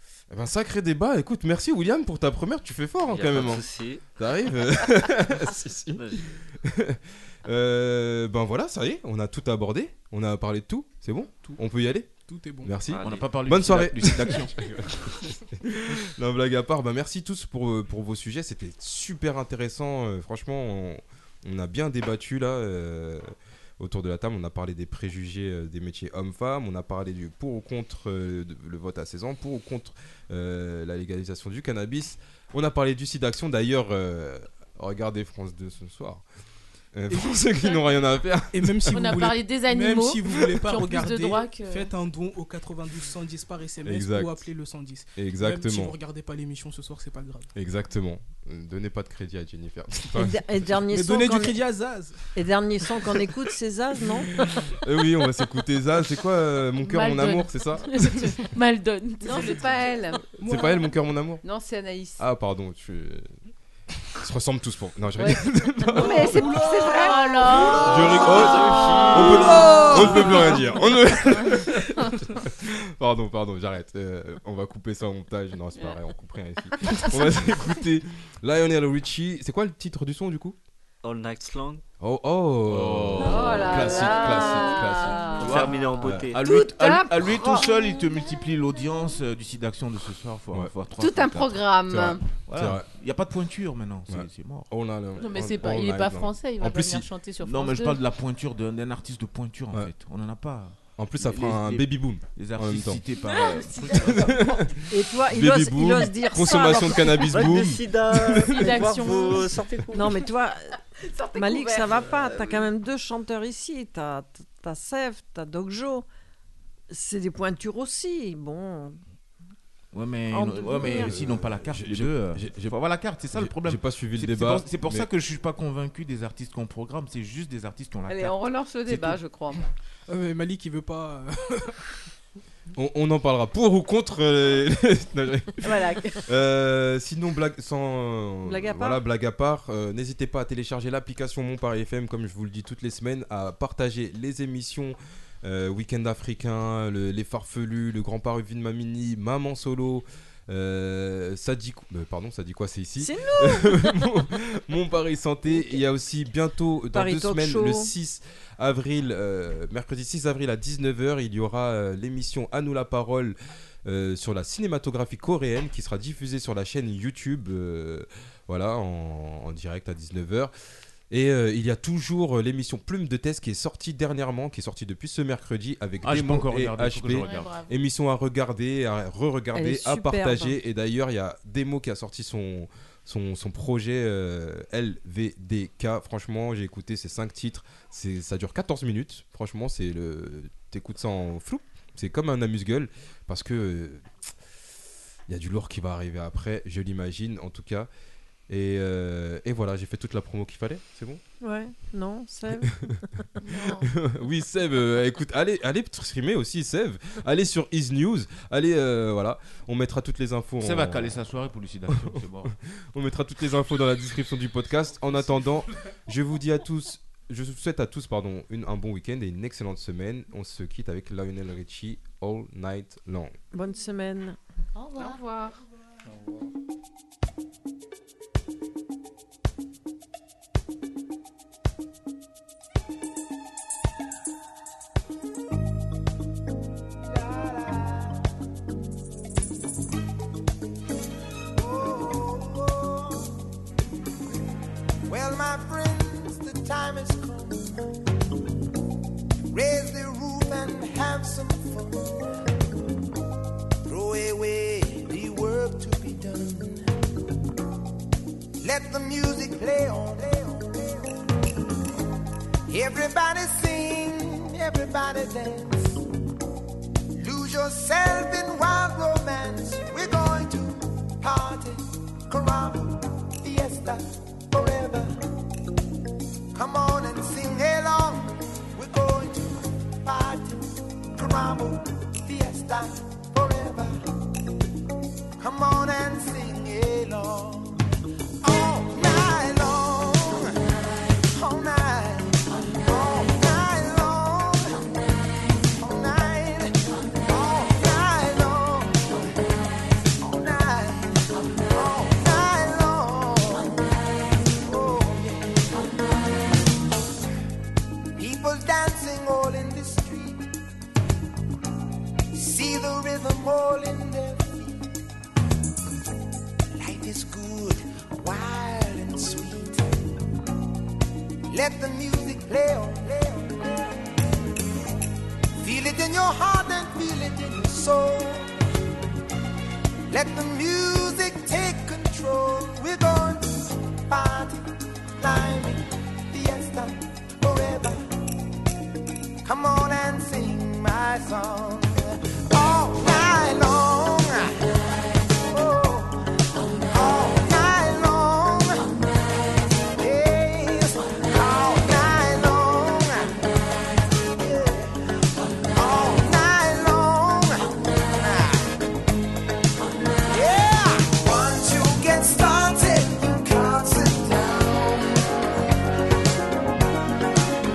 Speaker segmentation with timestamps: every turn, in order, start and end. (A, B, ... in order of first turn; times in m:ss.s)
0:00.3-0:36.2 A
0:03.0-0:04.0 B
0:05.9-0:06.2 B
0:11.3-0:12.8 C
0:12.9-0:13.3 B
0:13.0-0:14.7 D
0:36.9-0:39.0 A
0:37.1-0:37.8 C
0:38.5-0:47.5 C
0:38.9-0:41.9 E
0:43.8-0:44.5 A
0:45.1-0:46.0 A
0:47.5-0:50.7 A
0:50.1-0:51.6 F
0:50.9-0:52.2 C
0:52.3-0:54.3 F
0:54.4-0:58.4 A
0:56.8-0:59.9 E
0:59.2-1:00.2 G
1:00.4-1:01.0 C
1:00.4-1:01.4 A
1:01.4-1:02.2 G
1:02.2-1:03.3 A
1:04.2-1:06.5 A
1:05.2-1:10.6 G
1:05.9-1:08.5 C
1:06.8-1:09.4 E
1:07.8-1:20.6 A
1:08.5-1:09.8 B
1:09.2-1:11.2 C
1:16.8-1:17.1 G
1:21.0-1:21.8 B
1:22.0-1:26.3 A
1:22.6-1:24.1 D
1:23.2-1:27.7 G
1:25.4-1:26.4 B
1:25.4-1:31.7 D
1:31.0-1:32.2 G
1:31.9-1:32.9 A
1:32.5-1:34.7 D
1:34.1-1:37.0 A
1:35.2-1:38.0 E
1:37.4-1:44.5 D
1:40.9-1:43.0 A
1:43.1-1:44.8 G
1:43.9-1:48.6 A
1:44.9-1:47.7 F
1:47.3-1:50.2 B
1:48.5-1:49.4 E
1:48.5-1:49.3 F
1:49.9-1:50.7 F
1:51.0-1:52.7 G
1:51.3-1:56.1 F
1:56.9-1:59.0 F
1:59.9-2:09.2 D
2:00.3-2:01.2 F
2:00.7-2:02.7 A
2:03.3-2:05.1 A
2:08.1-2:09.7 G
2:10.1-2:11.8 C
2:12.7-2:50.5 A
2:15.6-2:16.3 G
2:18.4-2:19.0 F
2:33.0-2:34.1 F
2:35.5-2:35.8 F
2:36.9-2:37.9 F
2:51.1-3:14.1 A
2:56.0-2:57.5 D
2:57.2-2:57.8 E
2:59.5-3:00.6 F
3:15.3-3:17.9 A
3:18.5-3:21.2 A
3:21.4-3:23.0 F
3:23.4-3:23.9 E
3:23.6-3:31.2 A
3:30.6-3:32.5 D
3:31.9-3:32.2 A
3:32.9-3:43.3 A
3:43.5-3:44.4 F
3:44.7-3:45.2 E
3:45.0-3:45.6 G
3:57.0-3:58.2 H
4:01.5-4:03.3 H
4:05.1-4:07.8 H
4:09.5-4:12.2 H
4:13.8-4:17.0 H
4:18.6-4:21.1 H
4:22.7-4:26.0 H
4:27.1-4:35.1 H
4:36.5-4:44.0 H
4:45.4-4:47.8 H
4:48.4-4:50.6 H
4:51.3-4:54.8 H
4:55.8-4:59.3 H
5:00.2-5:03.8 H
5:04.6-5:05.8 H
5:08.2-5:10.4 H
5:12.3-5:14.8 H
5:16.7-5:20.0 H
5:21.5-5:24.2 H
5:25.6-5:28.5 H
5:30.1-5:34.6 H
5:35.2-5:38.1 H
5:39.4-5:44.6 H
5:45.3-5:46.2 H
5:46.9-5:48.9 H
5:49.9-5:53.5 H
5:54.2-5:58.7 H
6:00.3-6:05.4 H